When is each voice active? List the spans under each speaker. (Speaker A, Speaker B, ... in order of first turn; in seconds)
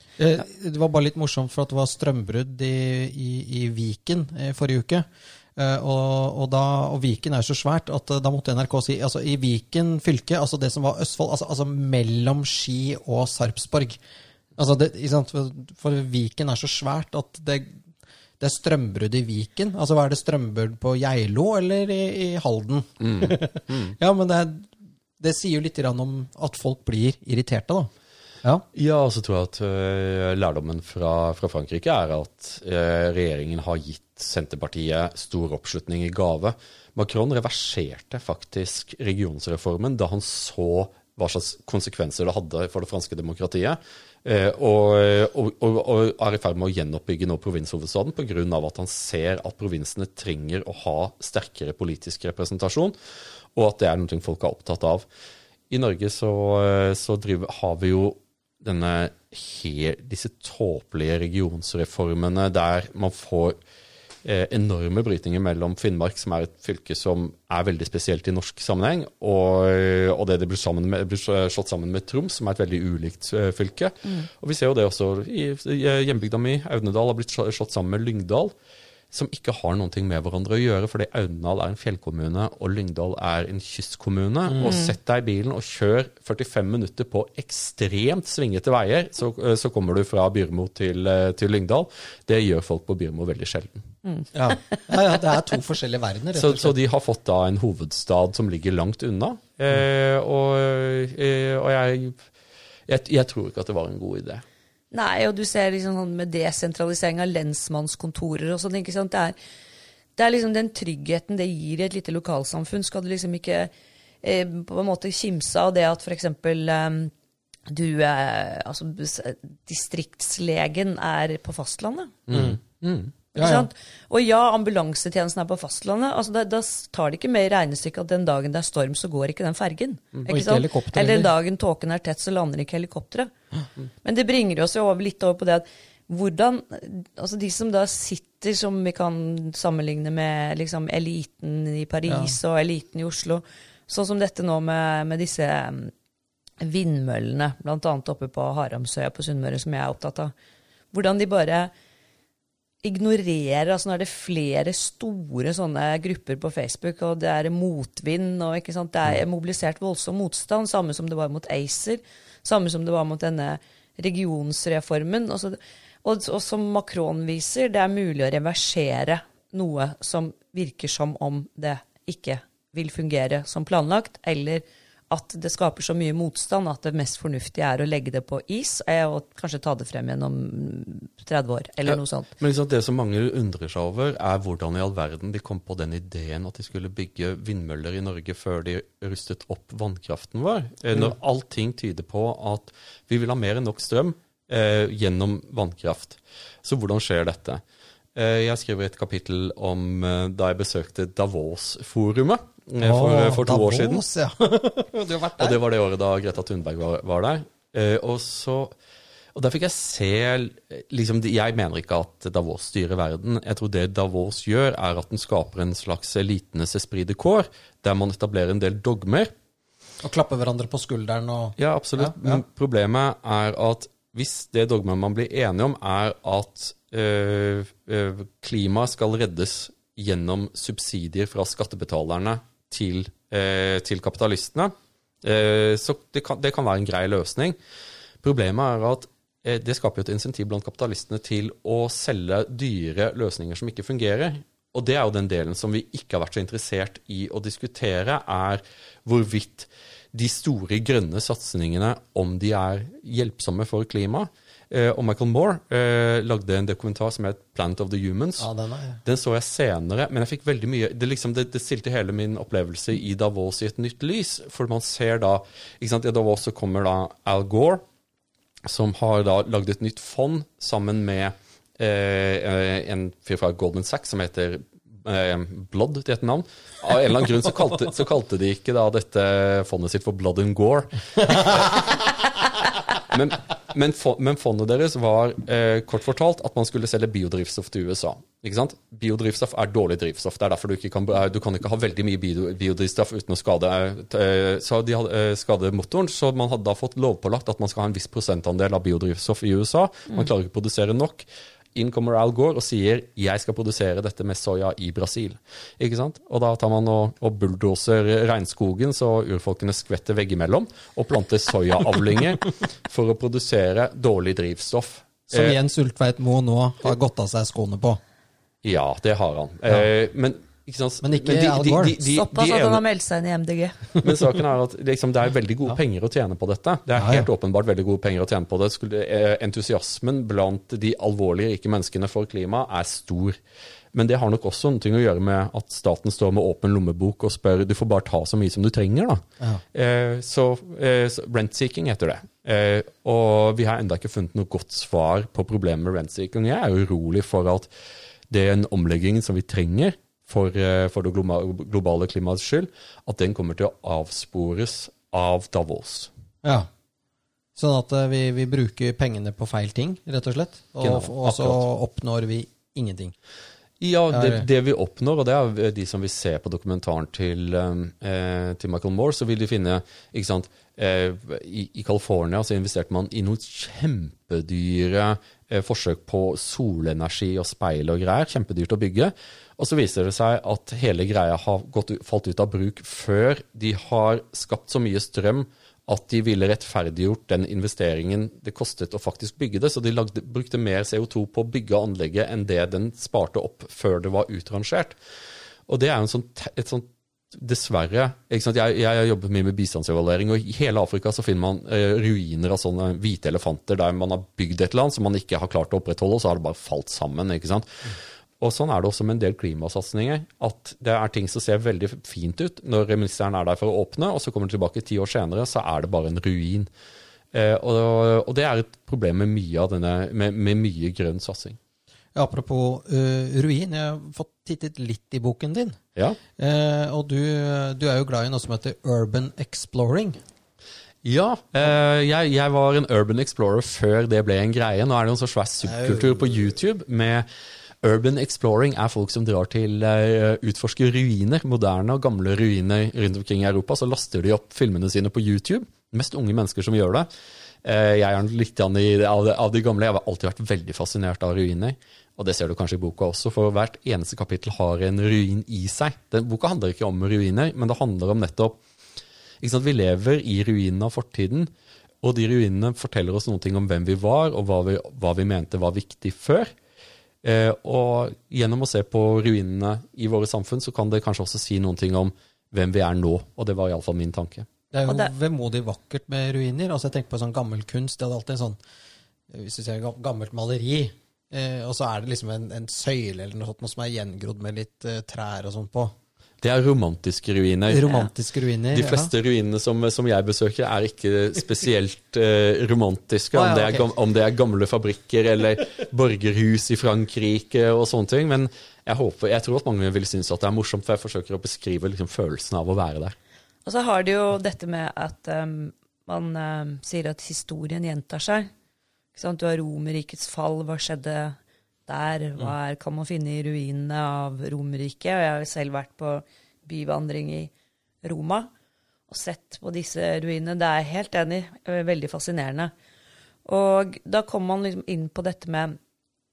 Speaker A: 0.2-14.0, 14.6-17.8, 18.4-27.9, 84.5-84.8, 94.3-96.8, 122.3-122.6, 123.4-123.7, 130.3-131.3, 142.1-142.3, 202.8-205.6, 220.0-222.4, 258.4-259.0, 315.3-318.0, 321.0-322.0, 327.0-327.3, 356.4-356.7, 357.6-363.1, 364.1-364.5, 422.1-425.8, 426.4-430.2, 435.6-436.3, 474.7-478.6, 479.3-485.9, 487.7-489.1, 493.3-493.9
Speaker B: 23.0-23.9, 28.7-53.0, 53.5-55.1, 55.7-63.6, 64.2-78.5, 79.1-93.9, 96.3-102.2, 102.9-104.4, 122.3-123.1, 181.8-197.6, 198.2-204.0, 205.4-208.7, 209.3-219.3, 221.6-237.6, 238.2-258.5, 259.0-267.8, 268.7-282.1, 283.0-315.6, 318.6-322.8, 324.0-333.4, 333.9-347.7, 348.3-356.1, 360.8-361.6, 363.8-394.9, 395.7-416.7, 417.3-421.6, 431.0-437.2, 437.8-447.1, 447.6-458.6, 459.4-461.5, 462.0-466.5, 467.2-474.5, 486.4-487.9, 488.7-503.1
Speaker C: 104.9-109.4, 110.2-113.7, 114.2-117.1, 117.7-122.2, 123.3-133.3, 134.0-145.9, 146.6-150.3, 150.9-151.7, 152.8-182.3, 322.0-323.9, 474.9-475.1, 503.6-508.5, 509.1-517.5, 518.0-518.5, 519.1-522.7, 523.5-525.8